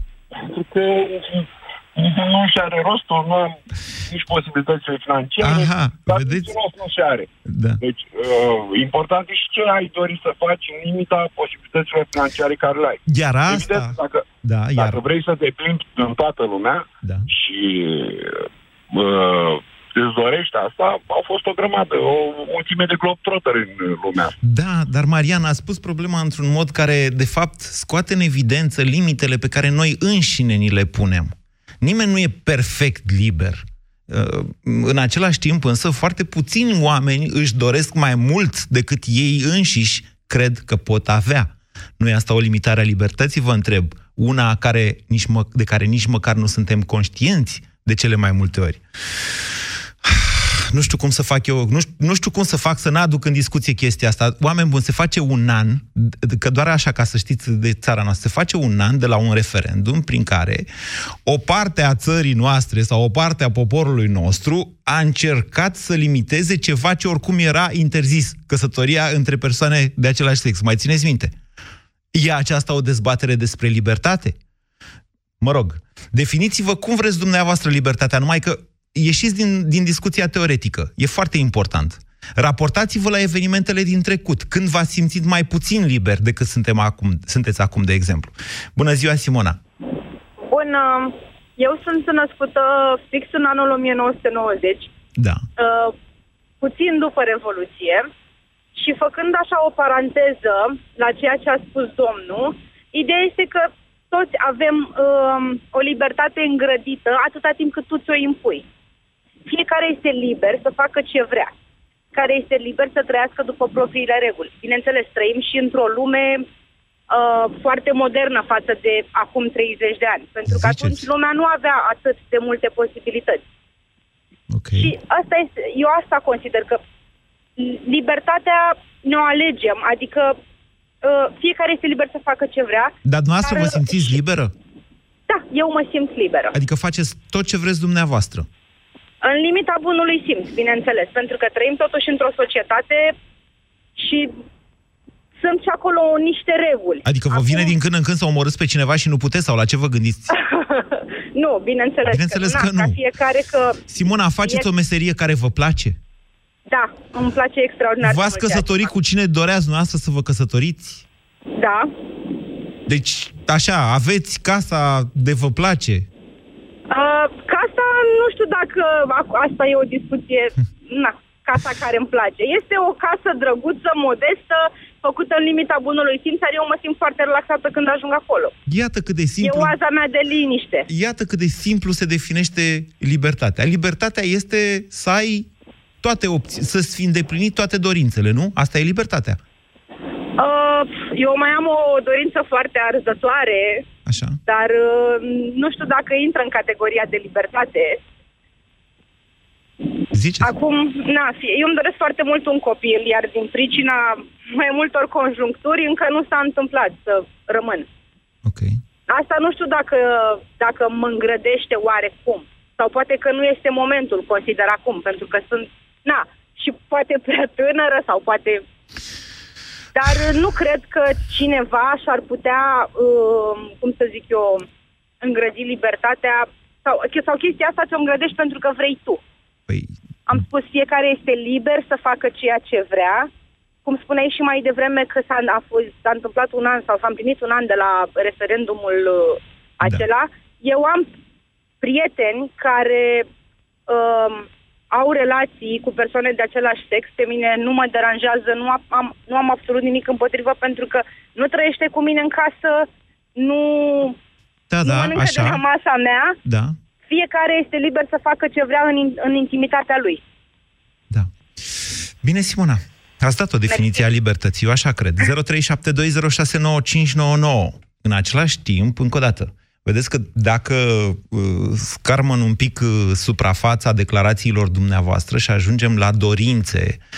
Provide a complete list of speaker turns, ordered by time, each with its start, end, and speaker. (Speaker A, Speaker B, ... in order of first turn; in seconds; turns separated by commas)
Speaker A: 0.3-7.3, Speaker B: 5.4-6.5, Speaker B: 7.5-7.8, Speaker A: 7.8-14.2, Speaker B: 13.1-15.0, Speaker A: 14.8-24.4, Speaker B: 17.0-17.3, Speaker B: 24.4-48.8, Speaker B: 50.0-60.6, Speaker B: 61.2-71.3, Speaker B: 72.1-74.4, Speaker B: 75.4-89.6, Speaker C: 90.4-94.9, Speaker B: 95.2-95.4, Speaker C: 95.6-95.9, Speaker C: 96.6-98.1, Speaker C: 98.7-108.7, Speaker C: 109.5-111.5, Speaker C: 112.1-116.5, Speaker C: 117.1-123.4, Speaker B: 120.5-121.1, Speaker B: 124.5-124.9, Speaker C: 124.7-126.8, Speaker C: 127.6-130.4, Speaker C: 131.0-134.2, Speaker B: 133.0-134.5, Speaker C: 135.3-136.6, Speaker B: 136.5-138.5, Speaker C: 139.2-143.1, Speaker C: 143.9-144.3, Speaker C: 145.4-147.8, Speaker B: 147.0-150.3, Speaker C: 150.3-154.7, Speaker B: 152.0-153.0, Speaker B: 153.9-156.0, Speaker C: 156.7-158.9, Speaker B: 158.0-161.1, Speaker C: 161.6-161.9, Speaker B: 162.9-166.1, Speaker C: 166.9-178.5, Speaker B: 178.7-179.8, Speaker C: 179.4-180.9, Speaker B: 180.9-185.5, Speaker B: 186.0-189.4, Speaker C: 190.4-193.8, Speaker B: 194.1-194.4, Speaker C: 194.5-198.0, Speaker B: 200.1-200.5, Speaker C: 200.4-207.9, Speaker B: 208.4-208.8, Speaker C: 209.1-218.6, Speaker C: 219.9-224.7, Speaker C: 225.2-229.2, Speaker B: 229.7-229.9, Speaker C: 230.3-233.3, Speaker C: 233.8-241.1, Speaker C: 241.8-243.3, Speaker C: 243.9-254.2, Speaker B: 254.7-255.6, Speaker C: 254.8-256.4, Speaker B: 256.4-256.8, Speaker C: 257.1-260.2, Speaker B: 261.1-277.0, Speaker C: 263.7-264.0